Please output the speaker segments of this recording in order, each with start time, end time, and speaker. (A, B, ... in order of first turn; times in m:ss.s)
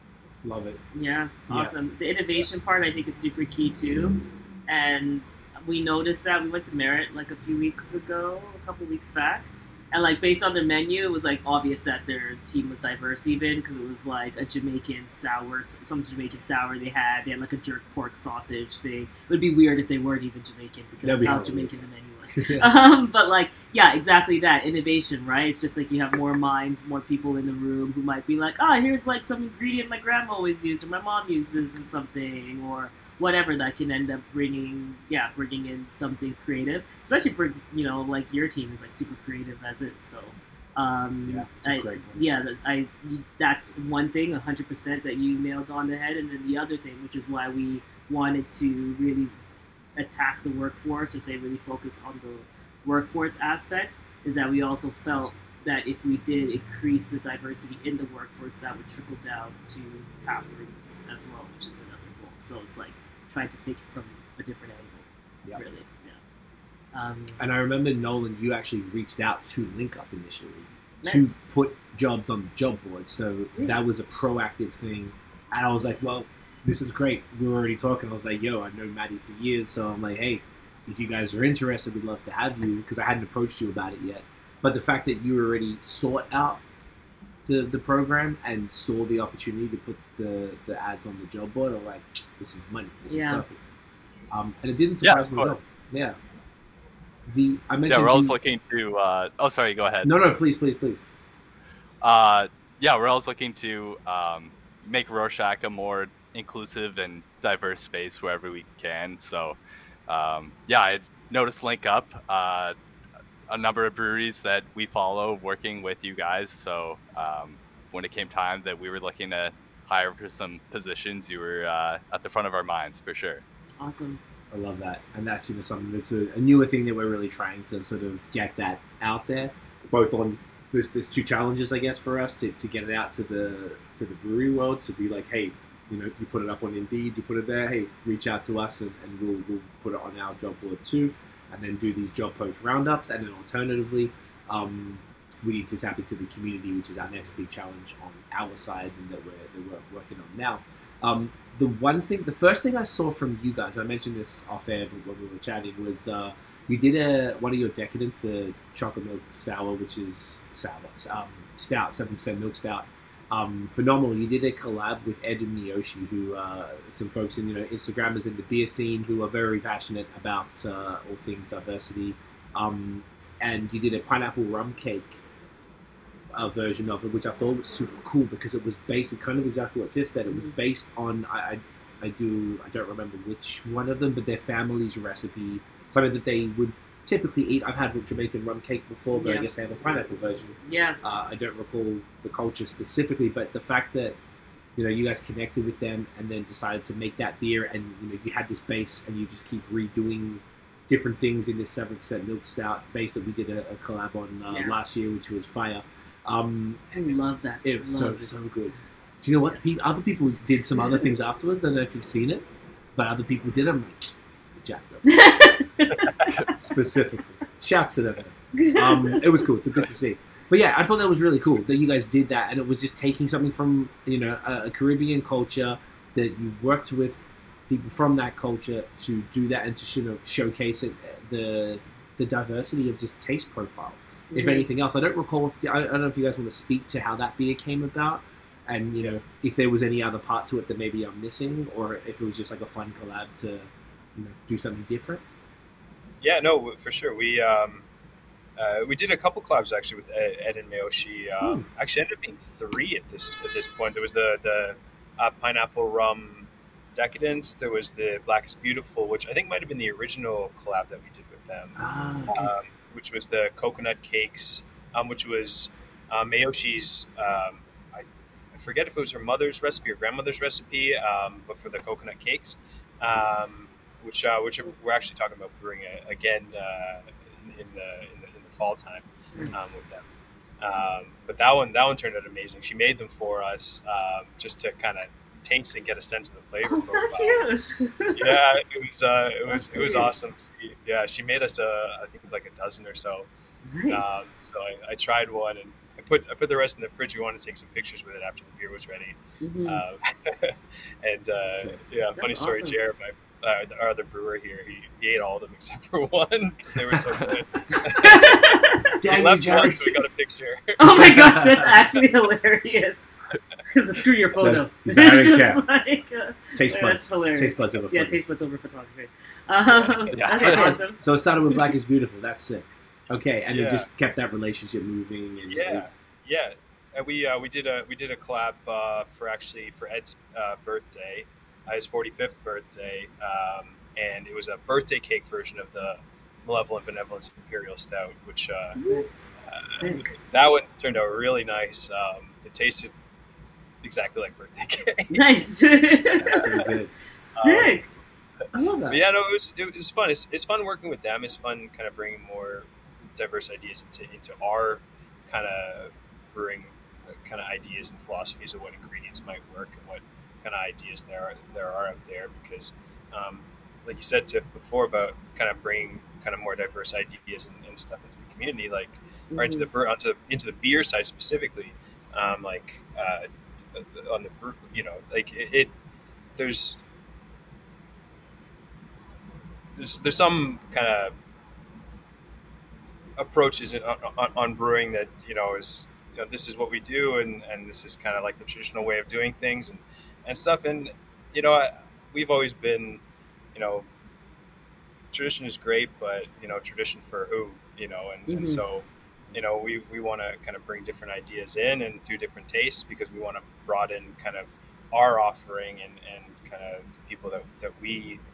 0:00.4-0:00.8 A
0:00.9-0:49.3 B
0:01.5-0:01.8 A
0:21.0-0:22.7 A
0:41.3-0:42.2 A
0:50.0-1:06.2 B
1:06.9-1:07.4 B
1:07.4-1:26.6 A
1:11.0-1:11.4 B
1:13.4-1:13.8 B
1:27.5-1:33.7 A
1:33.1-1:33.4 B
1:34.3-1:36.2 A
1:35.0-1:35.6 C
1:37.3-1:38.4 A
1:37.9-1:40.2 C
1:40.0-1:41.1 A
1:42.0-1:49.6 C
1:50.1-1:52.8 C
1:53.5-2:03.4 C
2:03.8-2:04.2 B
2:04.5-2:55.2 A
2:56.3-3:14.2 A
3:00.3-3:00.5 B
3:09.1-3:09.5 B
3:10.6-3:11.0 B
3:14.8-3:27.0 A
3:24.5-3:24.8 B
3:26.9-3:28.4 B
3:27.6-3:35.5 A
3:29.5-3:29.9 B
3:30.8-3:31.1 B
3:35.1-3:36.6 B
3:36.4-4:05.2 A
3:38.5-3:39.4 B
3:54.3-3:54.7 B
4:06.2-4:07.9 D
4:08.6-4:40.1 D
4:11.4-4:11.7 A
4:21.8-4:22.5 A
4:39.3-4:39.6 B
4:39.4-4:39.6 A
4:40.6-4:47.5 D
4:46.6-4:48.4 B
4:48.2-4:53.3 D
4:49.5-4:50.1 B
4:53.7-4:54.2 B
4:53.9-5:11.8 D
4:59.4-4:59.8 B
5:01.5-5:01.8 A
5:02.2-5:02.8 B
5:07.9-5:09.0 B
5:09.0-5:10.0 A
5:10.8-5:13.1 B
5:10.9-5:11.3 A
5:13.7-5:21.6 B
5:14.4-5:15.6 A
5:16.5-5:18.2 A
5:19.7-5:20.6 D
5:20.1-5:20.8 C
5:20.4-5:25.9 A
5:23.5-5:23.9 D
5:25.5-5:38.8 D
5:38.7-5:40.3 B
5:39.5-5:42.9 D
5:43.8-5:45.2 D
5:45.1-5:46.6 B
5:46.1-5:46.9 A
5:47.3-5:47.9 B
5:47.4-5:47.8 D
5:48.5-5:49.0 A
5:48.9-5:56.7 D
5:57.2-6:15.7 D
6:09.3-6:09.7 B
6:16.4-6:16.8 D
6:19.8-6:21.1 D
6:23.2-6:33.0 D
6:33.5-6:33.9 D
6:35.1-6:48.2 D
6:38.3-6:38.6 B